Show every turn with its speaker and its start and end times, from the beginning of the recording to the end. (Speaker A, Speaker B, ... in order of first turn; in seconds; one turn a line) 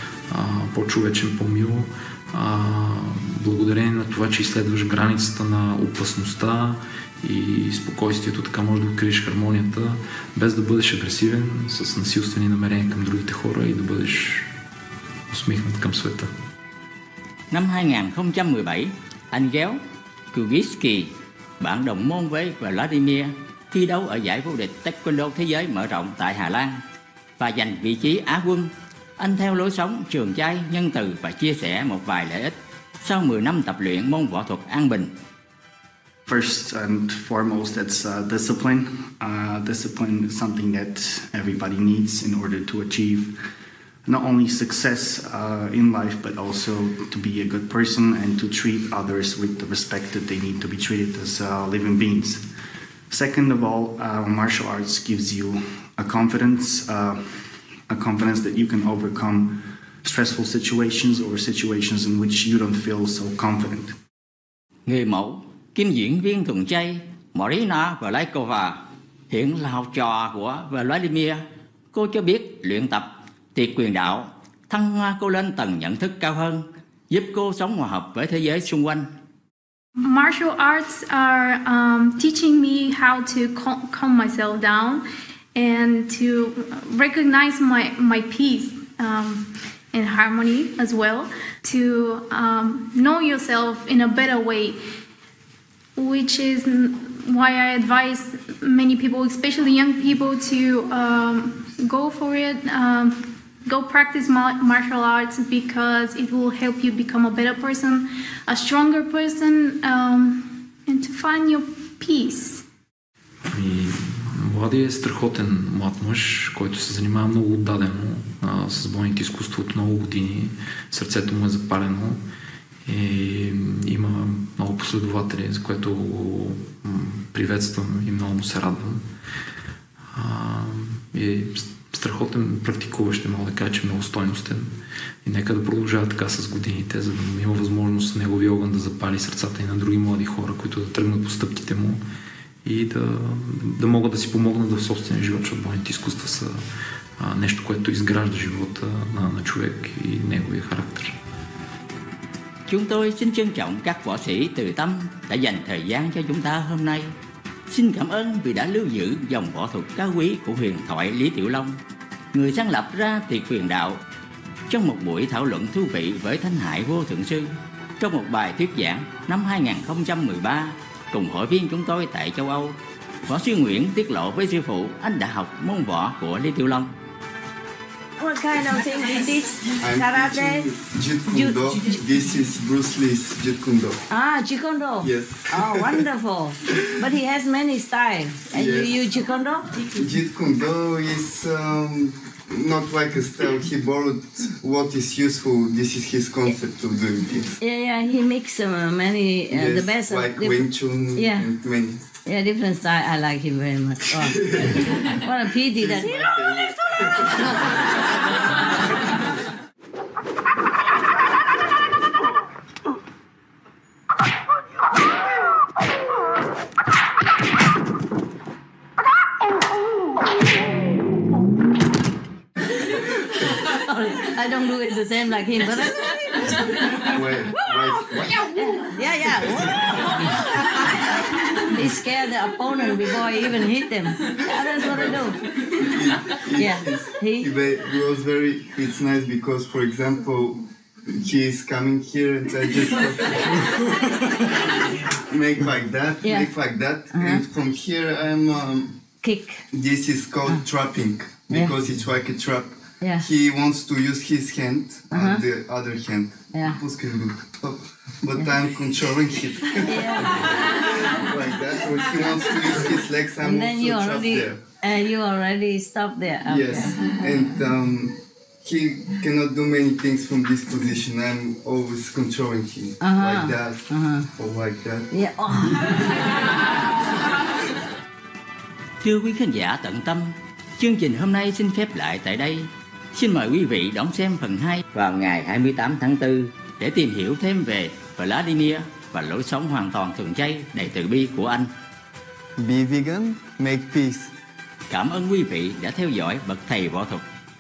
Speaker A: 0.3-14.5
Speaker A: 15.3-16.3
Speaker B: 17.5-19.8
Speaker B: 20.3-26.8
Speaker B: 27.4-35.1
Speaker C: 36.5-43.3
Speaker C: 44.1-52.4
Speaker C: 53.1-57.1
Speaker C: 58.0-59.5
Speaker C: 60.1-63.9
Speaker B: 64.9-71.4
Speaker B: 71.9-79.1
Speaker D: 80.0-85.0
Speaker D: 85.6-94.8
Speaker D: 96.0-112.6
Speaker A: 113.5-122.2
Speaker A: 122.9-129.0
Speaker A: 130.1-134.7
Speaker A: 135.2-142.0
Speaker A: 142.6-146.6
Speaker A: 147.2-151.2
Speaker B: 152.7-157.1
Speaker B: 157.7-161.8
Speaker B: 162.3-164.0
Speaker B: 164.7-176.9
Speaker E: 178.2-180.7
Speaker F: 179.8-184.0
Speaker E: 181.3-181.9
Speaker E: 184.1-189.8
Speaker F: 185.0-186.1
Speaker F: 188.5-189.0
Speaker F: 189.9-197.6
Speaker E: 197.6-201.5
Speaker F: 199.5-202.0
Speaker E: 202.3-206.6
Speaker F: 204.2-204.7
Speaker F: 205.7-207.2
Speaker E: 223.7-226.6
Speaker F: 227.1-228.4
Speaker E: 227.3-227.8
Speaker E: 228.6-230.2
Speaker E: 231.7-235.4
Speaker F: 234.8-249.0
Speaker E: 236.5-237.6
Speaker E: 246.2-246.5
Speaker E: 247.1-247.4
Speaker E: 249.2-249.6
Speaker F: 249.7-264.6
Speaker E: 251.5-251.8
Speaker E: 253.0-253.3
Speaker E: 255.1-255.4
Speaker E: 256.5-256.8
Speaker E: 258.4-258.7
Speaker E: 259.8-260.3
Speaker E: 263.4-267.2
Speaker F: 266.5-275.1
Speaker E: 273.0-274.3
Speaker E: 275.1-275.8
Speaker B: 279.0-291.7
Speaker F: 292.6-294.3
Speaker B: 294.9-297.2